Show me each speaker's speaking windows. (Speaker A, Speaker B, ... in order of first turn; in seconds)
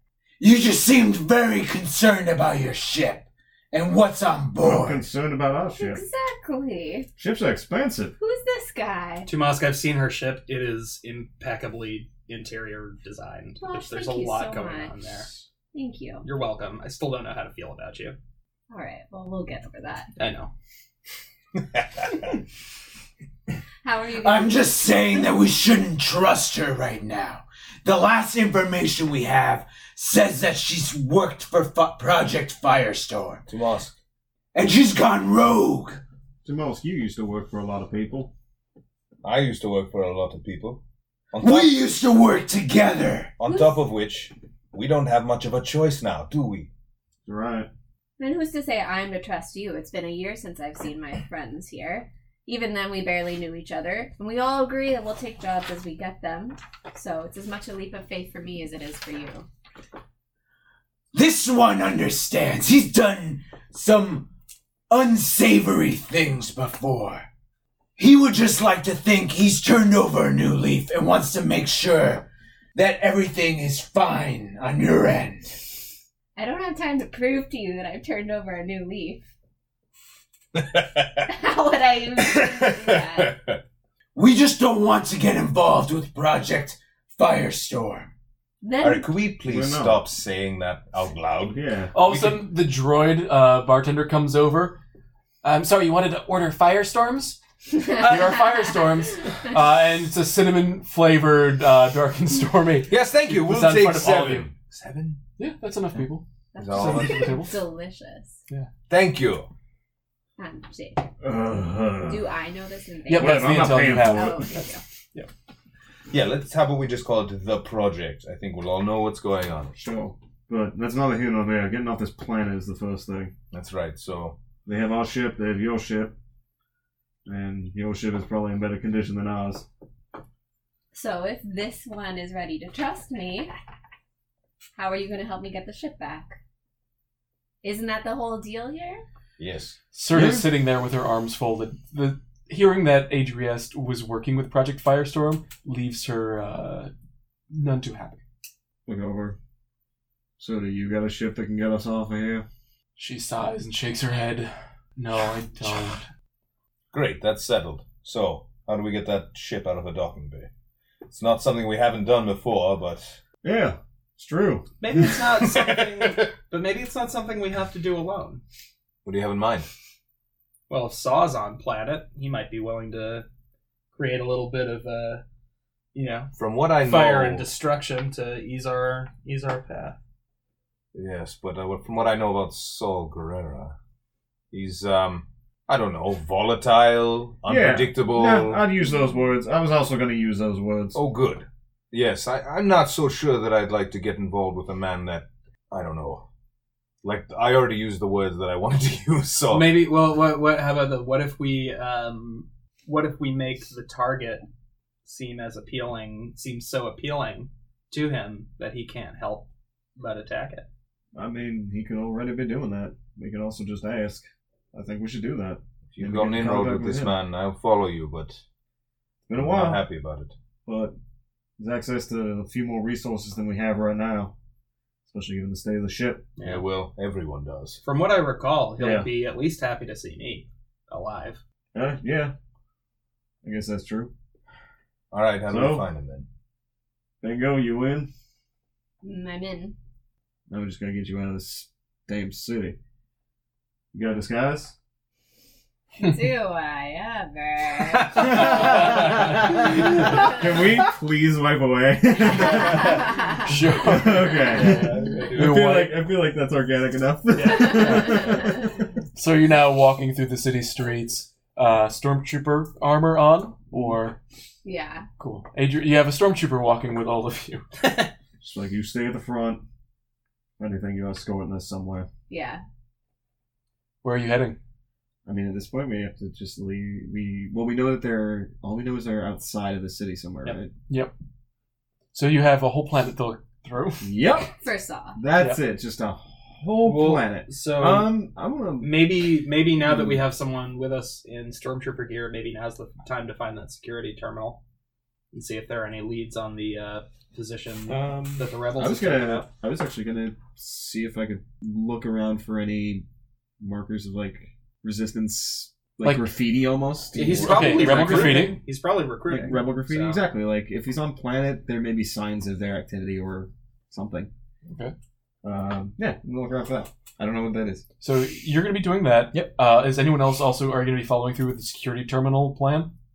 Speaker A: 0.4-5.0, 24.2-33.4, 34.5-36.0, 41.4-43.3, 61.1-64.3, 64.9-67.3, 68.0-75.7, 84.2-88.1
Speaker B: 4.6-6.0, 7.2-8.1, 36.4-38.3, 47.2-47.7, 89.5-90.0, 91.5-91.9, 111.2-112.3, 113.1-114.5, 119.8-123.3, 124.7-126.2, 127.3-129.7, 140.1-140.5, 148.9-149.4, 150.4-152.5, 163.4-164.7, 187.5-191.0, 211.1-217.2, 219.3-219.8, 220.7-220.9, 221.6-224.3, 225.1-226.2, 228.8-229.1, 231.7-232.3, 233.4-234.1, 235.5-235.9, 237.2-238.1, 240.5-242.8, 243.9-244.8, 249.6-253.1, 253.8-258.7, 268.4-269.6, 270.6-272.1, 275.3-280.7, 284.0-284.5, 285.2-290.2, 297.9-303.1, 303.6-308.6, 309.3-314.3, 315.4-317.8
Speaker C: 5.7-7.1, 8.2-9.3, 13.6-15.0, 15.7-16.3, 18.7-20.1, 23.8-24.8, 43.4-43.8, 48.2-59.5, 76.4-79.2, 81.2-83.4, 88.6-89.1, 97.8-98.4, 106.5-108.4, 110.4-111.1, 112.0-114.8, 130.9-133.5, 134.8-136.4, 137.6-139.0, 239.0-239.8, 246.0-248.9, 264.6-265.1, 272.3-272.6, 284.6-285.2
Speaker D: 9.3-15.3, 16.2-18.2, 20.2-20.5, 164.8-168.4, 170.7-173.3, 173.9-175.2, 175.9-180.0, 199.5-204.4, 205.0-210.7, 226.4-226.6, 227.8-231.4, 254.5-255.5, 257.4-257.7, 267.8-268.1, 286.8-288.2, 288.8-294.6, 295.3-299.5, 307.1-310.2
Speaker E: 21.7-22.1, 33.5-33.9, 39.2-40.8, 41.3-41.8, 43.4-46.7, 80.6-81.2, 82.2-83.6, 88.8-92.5, 102.9-105.2, 106.6-107.4, 108.9-109.5, 116.1-119.8, 123.5-124.4, 139.4-139.8, 156.9-160.5, 161.1-163.2, 165.4-166.3, 169.1-169.7, 176.4-177.5, 180.9-183.8, 184.5-188.7, 190.9-196.3, 197.0-199.8, 215.9-218.4, 219.4-220.3, 226.4-227.8, 235.1-236.3
Speaker F: 91.9-94.8, 95.4-104.5, 105.4-107.6, 113.1-114.5, 139.9-146.9, 147.5-148.2, 153.0-156.0, 253.4-256.0, 257.7-258.3, 259.1-264.2, 265.2-267.6, 274.0-274.6, 282.1-284.5, 285.4-285.6, 306.0-306.3, 307.4-308.6, 314.7-314.9, 318.0-322.9